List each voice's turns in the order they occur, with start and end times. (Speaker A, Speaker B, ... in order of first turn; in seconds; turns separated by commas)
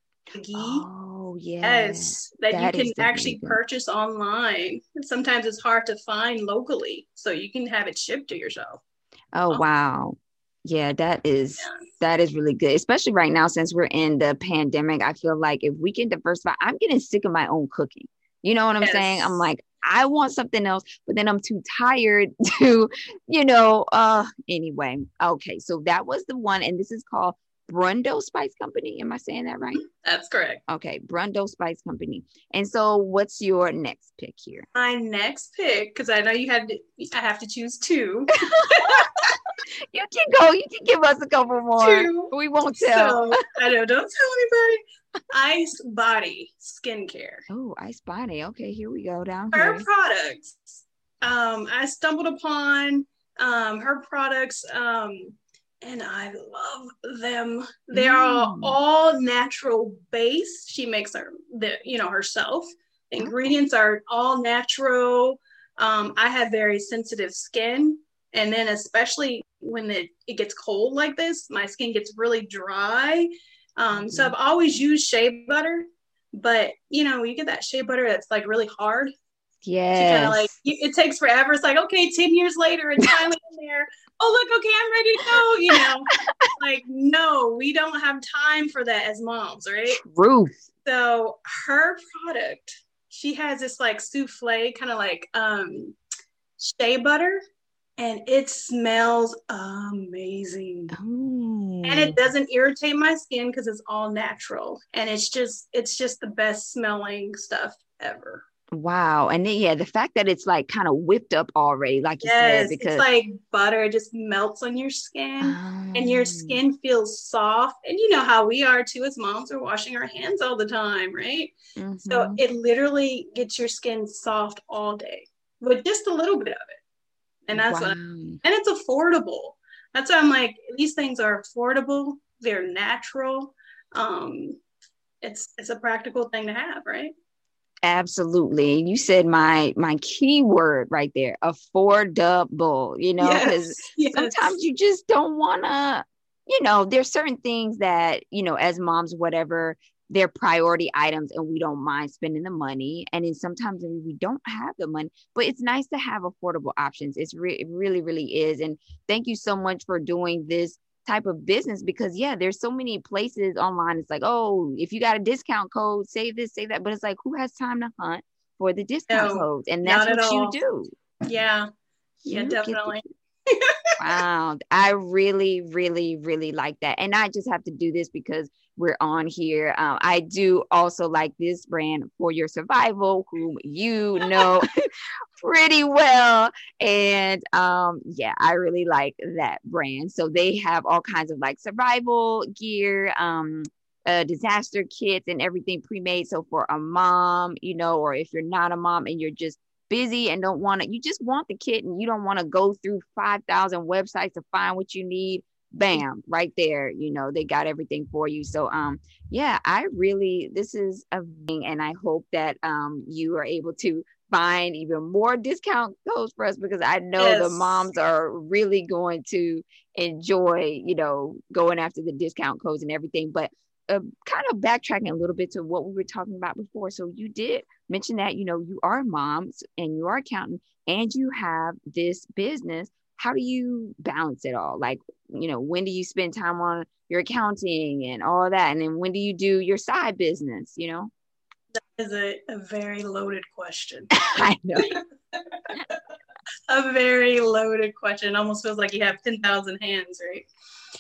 Speaker A: 0.3-0.9, Speaker B: 0.5-3.6, Speaker A: 1.6-8.8, Speaker B: 9.3-29.8, Speaker A: 11.6-11.9, Speaker A: 18.8-19.4, Speaker A: 29.8-30.6, Speaker B: 30.7-34.7, Speaker A: 34.8-39.2, Speaker B: 38.6-39.0, Speaker B: 39.9-43.4, Speaker A: 41.8-47.5, Speaker B: 47.5-49.9, Speaker A: 49.5-79.1, Speaker B: 57.9-58.8, Speaker B: 73.9-74.4, Speaker B: 79.6-80.5, Speaker A: 80.0-90.0, Speaker B: 86.1-86.5, Speaker B: 89.9-90.6, Speaker A: 90.8-96.0, Speaker A: 96.6-97.4, Speaker A: 98.0-100.9, Speaker B: 100.9-102.2, Speaker A: 101.8-108.4, Speaker B: 108.7-113.0, Speaker A: 112.2-121.6, Speaker B: 115.4-116.6, Speaker B: 121.8-122.4, Speaker A: 122.1-126.8, Speaker A: 127.5-134.6, Speaker B: 127.5-128.4, Speaker A: 135.2-137.1, Speaker B: 137.8-170.9, Speaker A: 143.2-144.6, Speaker A: 169.1-170.6, Speaker A: 171.2-171.7, Speaker B: 172.2-173.0, Speaker A: 172.3-173.7, Speaker B: 174.0-184.7, Speaker B: 185.4-241.1, Speaker A: 217.2-217.9, Speaker A: 241.8-244.1, Speaker B: 244.2-244.9, Speaker A: 245.5-246.0, Speaker A: 246.7-250.5